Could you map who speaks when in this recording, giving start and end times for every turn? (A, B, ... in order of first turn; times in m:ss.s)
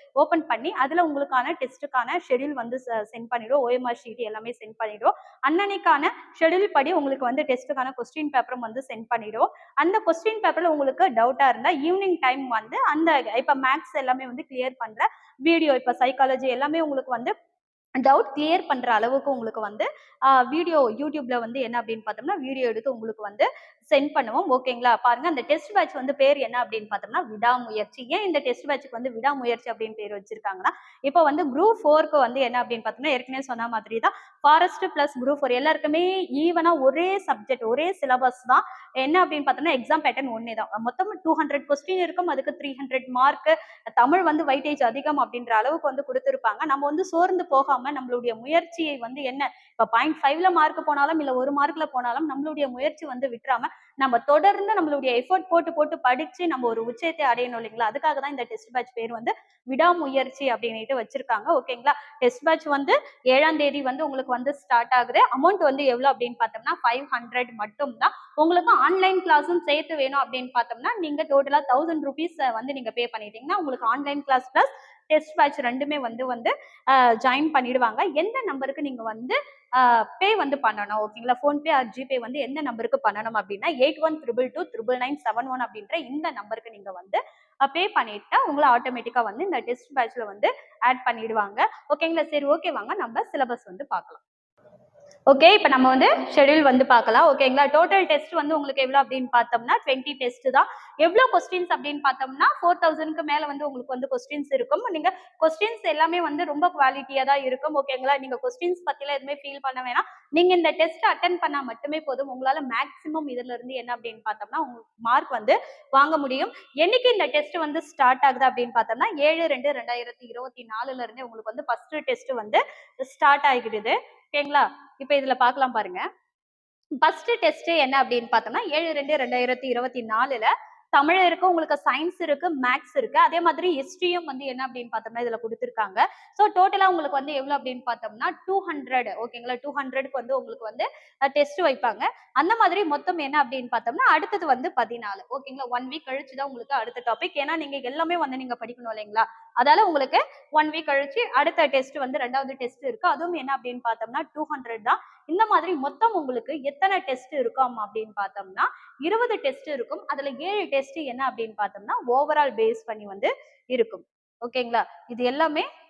0:00.2-0:17.3 A
0:18.0-1:34.2 A
1:35.3-2:06.1 A
2:07.0-2:45.7 A